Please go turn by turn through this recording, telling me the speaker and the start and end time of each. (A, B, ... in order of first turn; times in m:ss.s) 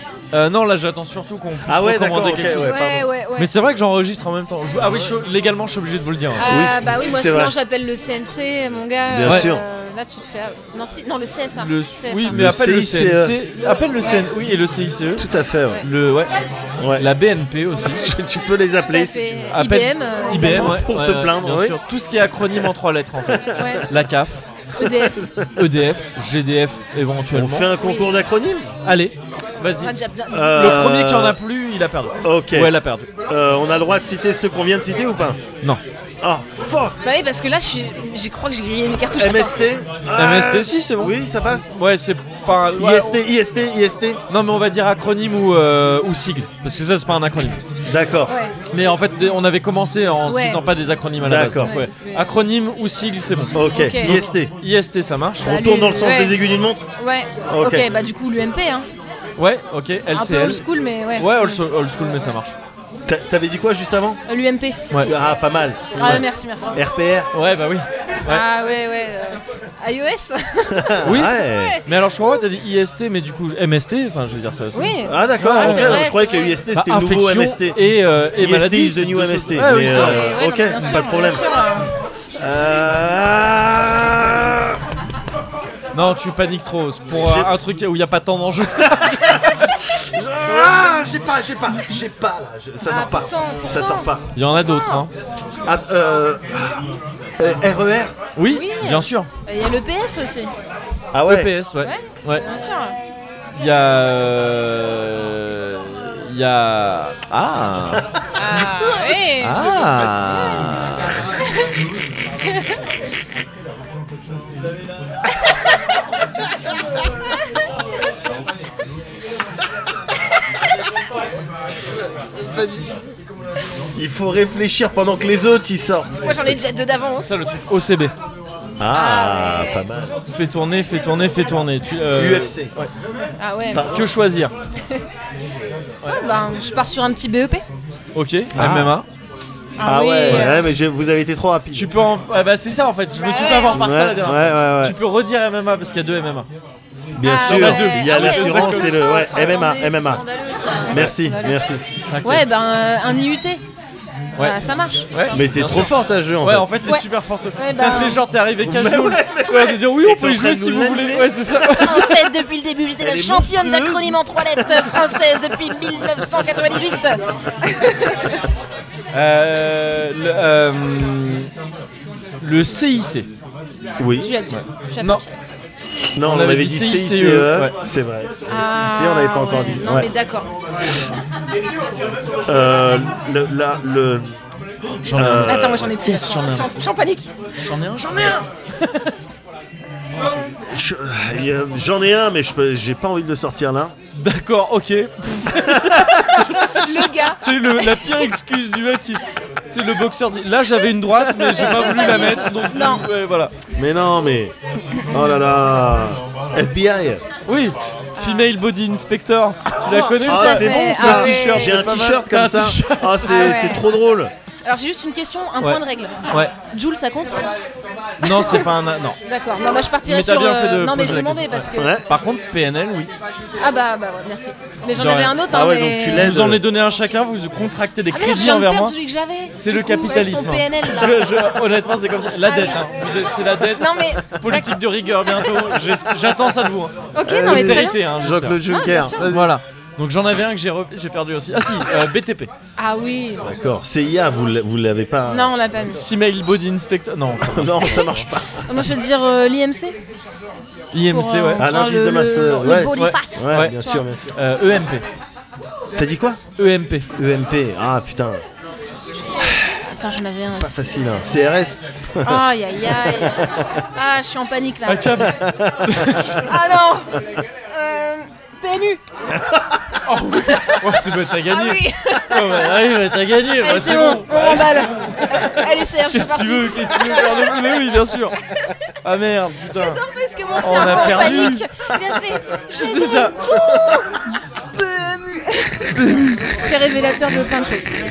0:00.3-0:06.4 A
0:01.7-0:03.1 B
0:02.6-0:03.5 C
0:06.4-0:12.4 C
0:06.4-0:07.5 B
0:09.1-0:09.6 B
0:11.6-0:15.3 A
0:12.3-0:13.4 B
0:13.7-0:13.9 C
0:15.2-0:15.8 B
0:15.8-0:16.3 A
0:16.8-0:17.1 B
0:17.0-0:18.0 A
0:18.0-0:19.2 B
0:18.8-0:20.8 C
0:19.5-0:24.5 A
0:20.3-0:21.8 B
0:23.3-0:23.8 B
0:23.6-0:23.9 C
0:24.8-0:25.3 C
0:24.8-0:25.5 B
0:25.6-0:27.7 A
0:27.3-0:28.7 B
0:27.8-0:28.1 C
0:28.8-0:29.9 A
0:29.8-0:30.7 C
0:30.3-0:31.4 B
0:30.5-0:33.1 A
0:32.2-0:32.7 B
0:33.3-0:35.4 B
0:36.2-0:37.0 B
0:37.0-0:39.6 C
0:39.2-0:41.7 B
0:40.1-0:41.1 A
0:41.7-0:43.2 A
0:42.8-0:44.2 B
0:44.3-0:47.6 A
0:47.9-0:48.3 B
0:48.3-0:48.5 C
0:48.7-0:55.5 A
0:50.2-0:50.7 C
0:51.2-0:51.8 B
0:51.6-0:52.3 C
0:53.5-0:54.5 B
0:53.7-0:54.2 C
0:55.4-0:56.4 C
0:55.4-0:56.8 B
0:57.0-0:58.9 C
0:57.5-0:57.9 B
0:59.4-1:00.6 A
1:00.1-1:01.6 C
1:01.2-1:02.6 A
1:03.0-1:04.2 B
1:04.3-1:04.8 C
1:05.0-1:06.2 B
1:06.0-1:06.7 C
1:06.0-1:06.2 A
1:06.7-1:07.3 B
1:07.3-1:08.4 A
1:08.3-1:11.8 C
1:10.7-1:11.8 B
1:11.0-1:16.0 A
1:14.7-1:16.6 C
1:15.0-1:21.5 B
1:16.7-1:20.3 A
1:19.7-1:21.9 C
1:22.4-1:24.8 B
1:25.9-1:29.6 A
1:27.2-1:27.5 B
1:28.8-1:29.1 B
1:29.9-1:34.3 B
1:32.8-1:35.0 C
1:34.3-1:35.1 A
1:35.6-1:36.9 B
1:37.4-1:38.1 B
1:38.4-1:39.3 A
1:38.5-1:40.5 C
1:41.1-1:41.5 B
1:41.3-1:42.4 A
1:41.8-1:43.0 C
1:43.6-1:48.1 A
1:48.4-1:50.3 C
1:49.4-1:51.2 A
2:02.3-2:03.0 B
2:04.0-2:06.6 B
2:06.2-2:07.3 C
2:07.1-2:08.1 A
2:08.8-2:10.1 B
2:08.9-2:09.8 C
2:10.3-2:12.9 A
2:12.1-2:12.7 B
2:13.4-2:13.9 C
2:13.7-2:14.1 B
2:13.8-2:14.5 A
2:16.1-2:17.6 C
2:18.1-2:19.1 A
2:18.5-2:19.0 B
2:19.8-2:20.7 C
2:19.8-2:21.9 B
2:20.3-2:20.6 A
2:21.7-2:26.5 A
2:23.2-2:23.8 C
2:23.8-2:25.0 B
2:27.1-2:30.2 B
2:27.2-2:31.6 C
2:27.4-2:29.0 A
2:30.9-2:31.8 B
2:32.1-2:32.4 A
2:32.2-2:33.6 C
2:34.4-2:35.9 C
2:35.1-2:42.2 A
2:35.3-2:36.7 B
2:36.8-2:38.2 C
2:38.6-2:41.6 B
2:41.8-2:48.4 C
2:43.0-2:45.0 B
2:49.1-2:51.5 A
2:52.4-2:53.3 A
2:54.0-2:54.4 B
2:54.2-2:55.3 C
2:54.5-2:55.2 A
2:56.1-3:00.1 B
2:56.2-2:57.7 A
2:58.5-3:00.5 C
3:02.4-3:04.3 B
3:04.9-3:06.7 A
3:05.1-3:05.8 B
3:05.5-3:07.3 C
3:07.6-3:09.1 A
3:10.5-3:14.0 B
3:14.1-3:23.5 A
3:15.6-3:16.0 B
3:16.0-3:18.2 C
3:21.2-3:23.1 C
3:23.8-3:24.6 B
3:25.0-3:27.2 B
3:27.5-3:33.4 A
3:28.2-3:28.5 C
3:29.8-3:31.8 C
3:30.1-3:34.3 B
3:33.2-3:33.9 C
3:34.6-3:37.5 C
3:35.6-3:36.5 A
3:38.2-3:39.2 A
3:38.2-3:38.7 C
3:39.2-3:42.0 C
3:40.0-3:43.1 A
3:41.8-3:42.0 B
3:43.6-3:46.4 C
3:45.0-3:45.4 A
3:45.5-3:46.6 B
3:46.1-3:49.0 A
3:48.1-3:51.5 C
3:49.5-3:58.6 A
3:52.4-3:52.9 C
3:53.8-3:55.5 C
3:57.1-3:58.0 C
3:57.2-3:59.6 B
3:58.6-3:59.3 C
3:59.2-4:02.5 A
4:02.8-4:03.5 C
4:03.4-4:05.5 B
4:05.3-4:06.0 C
4:05.9-4:08.3 A
4:07.4-4:08.8 B
4:08.6-4:10.0 C
4:10.9-4:11.7 A
4:11.0-4:14.0 C
4:11.6-4:14.3 B
4:12.9-4:13.8 A
4:14.3-4:15.0 A
4:16.0-4:16.4 B
4:16.6-4:17.1 A
4:17.1-4:18.4 B
4:19.2-4:20.9 C
4:20.6-4:23.6 B
4:22.2-4:25.3 C
4:24.9-4:26.5 A
4:25.4-4:26.3 B
4:26.5-4:29.0 C
4:29.4-4:29.6 B
4:30.0-4:38.4 A
4:30.6-4:30.8 C
4:31.4-4:32.8 C
4:33.5-4:37.8 C
4:39.0-4:40.0 A
4:39.7-4:47.9 C
4:40.6-4:41.7 A
4:42.8-4:43.4 A